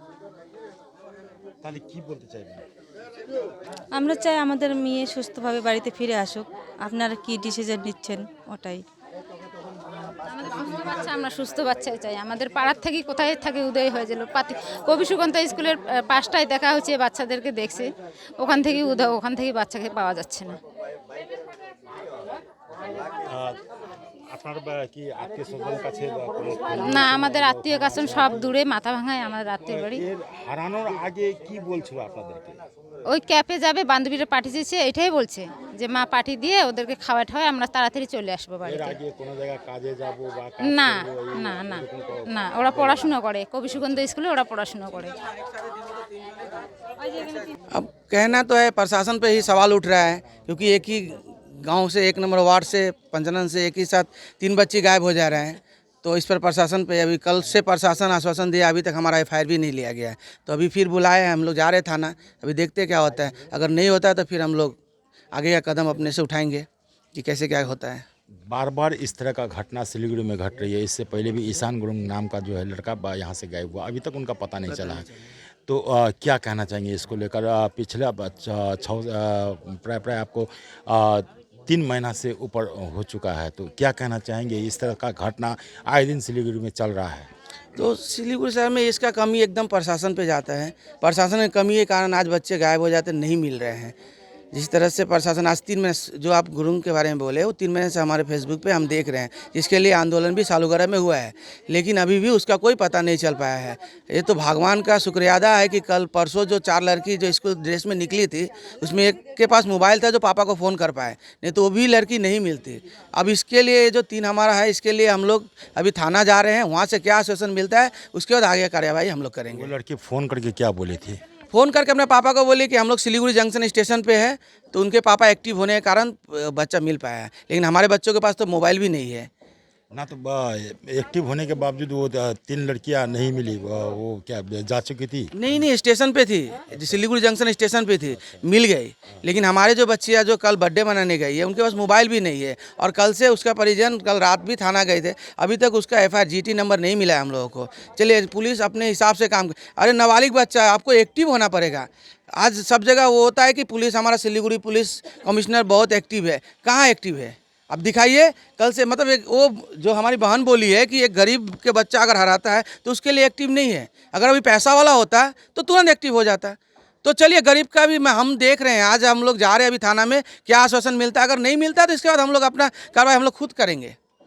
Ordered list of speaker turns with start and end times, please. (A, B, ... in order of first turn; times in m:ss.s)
0:01.6-0:02.6 A
0:03.9-0:08.8 B
0:10.3-0:17.9 C
0:18.4-0:20.6 C
0:23.2-0:23.7 A
0:24.3-0:28.6 A
0:26.8-0:30.0 C
0:29.6-0:32.6 A
0:33.1-0:38.9 C
0:38.6-0:43.2 A
0:40.7-0:45.1 C
0:43.7-0:44.2 A
0:47.7-1:04.8 D
1:05.3-1:08.0 D
1:08.5-1:15.1 A
1:15.7-1:27.3 A
1:27.8-1:34.0 D
1:34.5-1:59.7 D
1:59.5-2:01.2 A
2:01.5-2:09.3 D
2:09.9-2:15.6 A
2:15.3-2:53.9 D
2:16.7-2:17.0 A
2:18.1-2:18.4 A